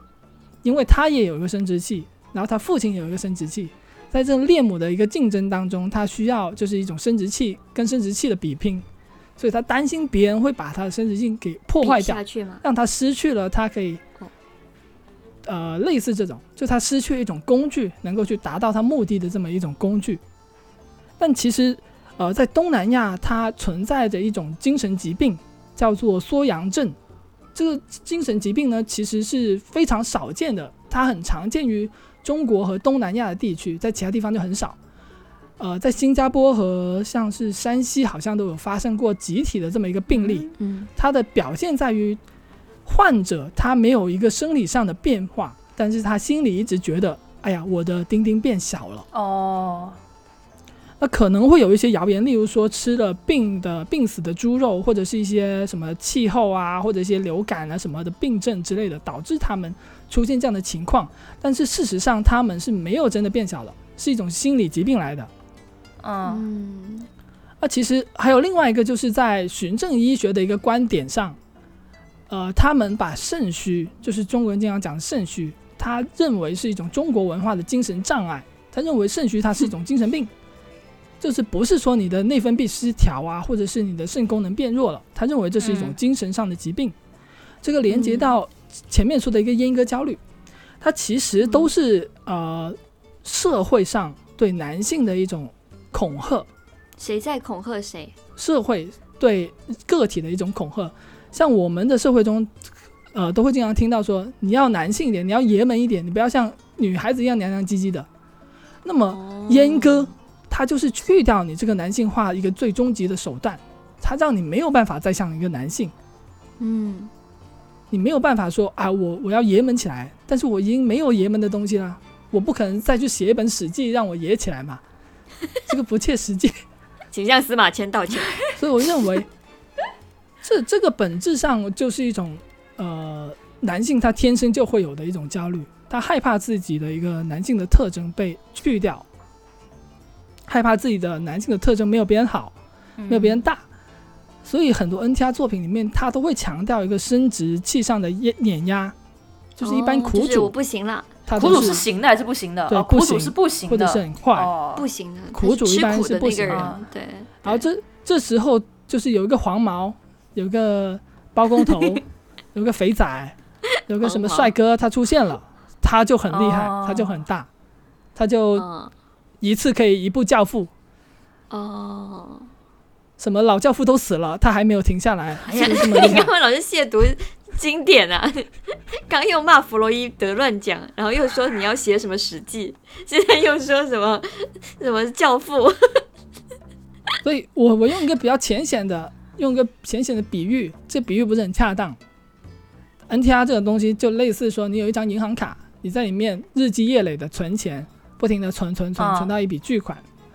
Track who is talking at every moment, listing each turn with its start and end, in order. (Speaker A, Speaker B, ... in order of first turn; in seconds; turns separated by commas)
Speaker A: 0.6-8.8, Speaker A: 9.4-14.0, Speaker B: 11.8-12.6, Speaker A: 15.4-20.2, Speaker A: 21.2-26.9, Speaker A: 27.5-34.8, Speaker A: 35.6-42.2, Speaker C: 40.1-40.5, Speaker B: 40.6-40.9, Speaker A: 42.9-49.0, Speaker C: 49.1-50.0, Speaker A: 51.0-65.3, Speaker C: 66.0-66.4, Speaker B: 66.2-67.1, Speaker A: 67.6-71.4, Speaker A: 72.3-80.3, Speaker A: 81.2-87.0, Speaker C: 85.6-86.0, Speaker A: 87.6-90.2, Speaker B: 87.9-88.3, Speaker A: 90.8-96.5, Speaker B: 97.0-98.1, Speaker A: 98.4-102.5, Speaker A: 103.1-108.1, Speaker A: 108.8-115.9, Speaker B: 109.1-110.1, Speaker B: 116.6-117.1, Speaker A: 117.9-124.8, Speaker A: 125.7-126.5, Speaker B: 127.1-128.4, Speaker A: 128.6-129.3, Speaker A: 130.4-139.0, Speaker A: 140.5-142.5, Speaker C: 143.0-143.4, Speaker A: 143.1-143.6, Speaker A: 144.4-148.9, Speaker A: 149.6-150.5, Speaker B: 149.6-151.7, Speaker A: 151.3-151.9, Speaker C: 151.3-154.8, Speaker A: 152.7-154.5, Speaker B: 154.7-157.6, Speaker A: 155.3-156.8, Speaker C: 156.5-156.8, Speaker A: 157.4-162.0, Speaker A: 162.5-163.3, Speaker A: 163.9-167.5, Speaker B: 164.0-164.5, Speaker C: 166.3-167.2, Speaker A: 168.2-168.6, Speaker B: 168.5-168.9, Speaker A: 169.4-170.7, Speaker B: 171.5-172.5, Speaker A: 173.2-176.3, Speaker B: 175.4-186.0, Speaker A: 187.2-192.0, Speaker A: 193.1-200.0, Speaker C: 199.0-199.3